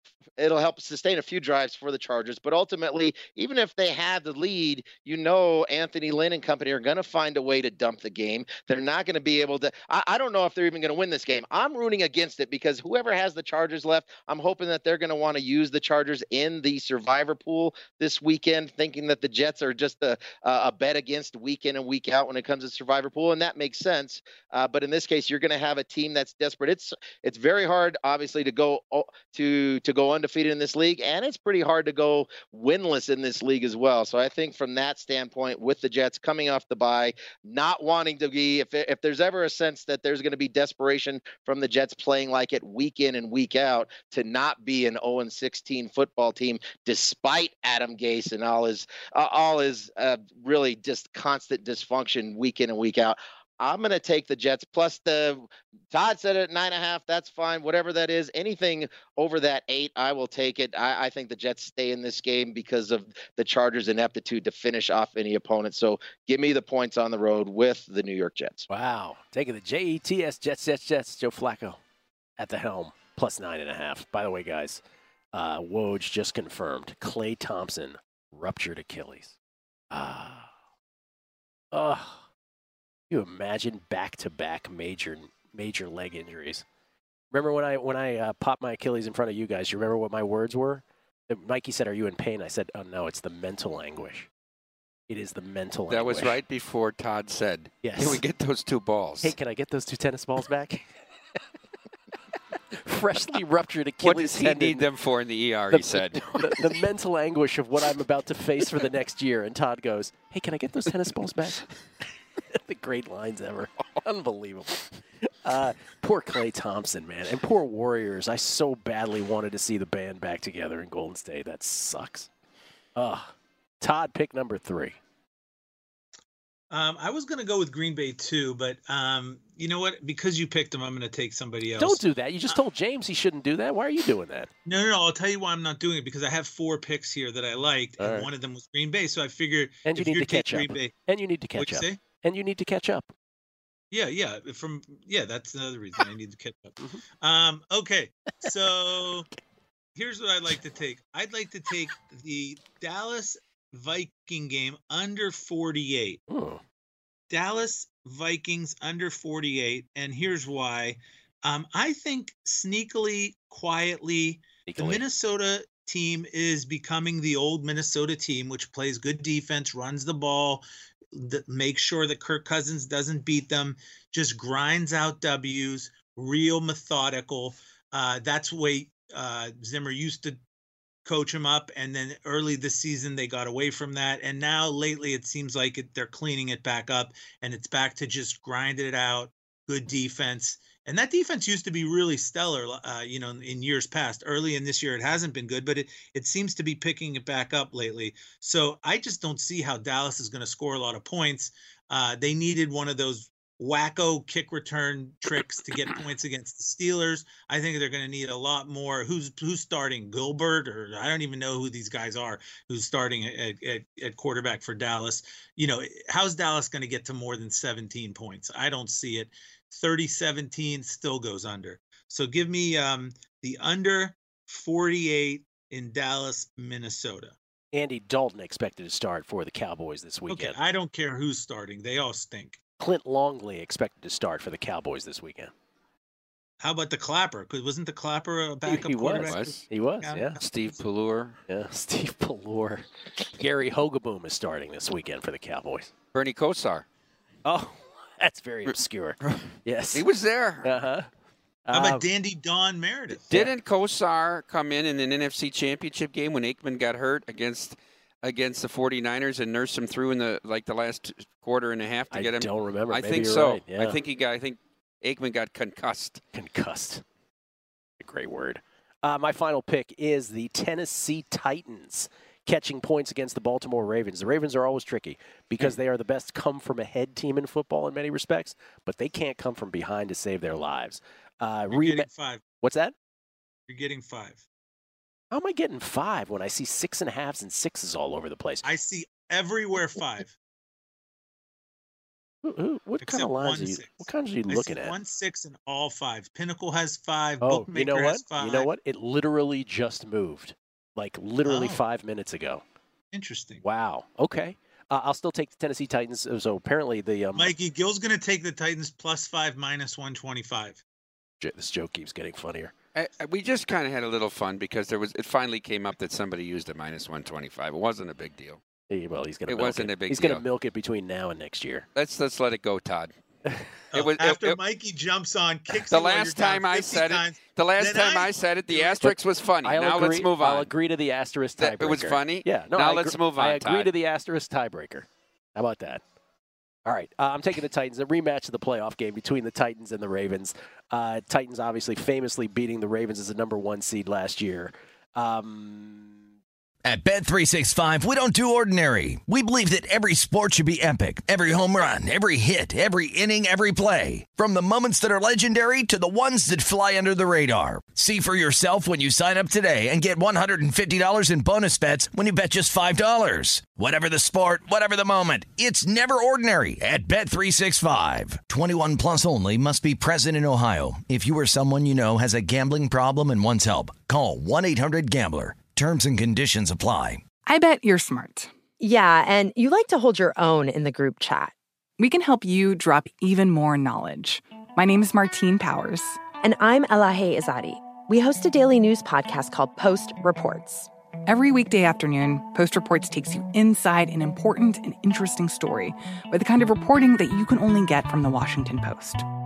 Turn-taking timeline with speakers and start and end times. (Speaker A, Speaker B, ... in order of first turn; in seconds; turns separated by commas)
Speaker A: 0.4-68.7, Speaker B: 68.7-71.8, Speaker B: 72.4-74.8, Speaker B: 75.3-79.3, Speaker B: 79.9-80.5, Speaker B: 81.7-82.2, Speaker B: 83.1-86.6, Speaker B: 87.3-94.3, Speaker B: 95.1-96.4, Speaker C: 95.9-99.3, Speaker B: 97.8-98.2, Speaker B: 99.2-100.9, Speaker B: 102.8-104.8, Speaker C: 104.0-106.6, Speaker B: 105.7-111.7, Speaker B: 112.5-122.3, Speaker B: 123.0-125.0, Speaker D: 126.7-132.0, Speaker B: 131.8-134.5, Speaker D: 134.7-140.9, Speaker B: 138.0-138.3, Speaker B: 139.8-143.1, Speaker D: 141.6-142.0, Speaker D: 143.9-149.3, Speaker D: 149.9-156.2, Speaker B: 156.3-156.6, Speaker D: 157.3-180.4, Speaker B: 164.7-165.0, Speaker D: 181.0-227.3, Speaker B: 227.7-230.6, Speaker D: 230.3-232.6, Speaker B: 232.8-235.5, Speaker D: 236.6-240.4, Speaker B: 238.6-240.4, Speaker C: 239.2-239.6, Speaker C: 240.4-241.4, Speaker B: 241.5-245.9, Speaker C: 246.1-246.8, Speaker B: 247.4-250.0, Speaker C: 249.2-250.7, Speaker B: 250.6-251.1, Speaker B: 251.7-252.1, Speaker D: 251.7-253.3, Speaker C: 253.3-266.2, Speaker B: 262.1-264.0, Speaker B: 266.3-267.0, Speaker B: 268.0-282.1, Speaker D: 281.7-282.4, Speaker B: 282.6-282.9, Speaker D: 283.7-284.4, Speaker B: 285.3-288.6, Speaker D: 288.6-290.4, Speaker B: 292.4-294.9, Speaker D: 293.0-298.7, Speaker B: 297.4-302.6, Speaker D: 301.4-301.8, Speaker D: 303.1-303.6, Speaker B: 303.6-307.5, Speaker D: 307.3-310.8, Speaker B: 311.4-312.7, Speaker C: 312.9-318.6, Speaker B: 318.9-321.9, Speaker C: 319.5-320.4, Speaker C: 321.9-323.1, Speaker D: 323.9-329.1, Speaker C: 323.9-324.6, Speaker C: 325.9-330.7, Speaker B: 329.0-336.0, Speaker C: 331.6-333.9, Speaker B: 336.9-346.2, Speaker E: 346.8-377.2, Speaker F: 377.4-378.5, Speaker G: 378.8-381.5, Speaker F: 382.0-386.2, Speaker G: 386.4-390.9, Speaker F: 391.2-399.2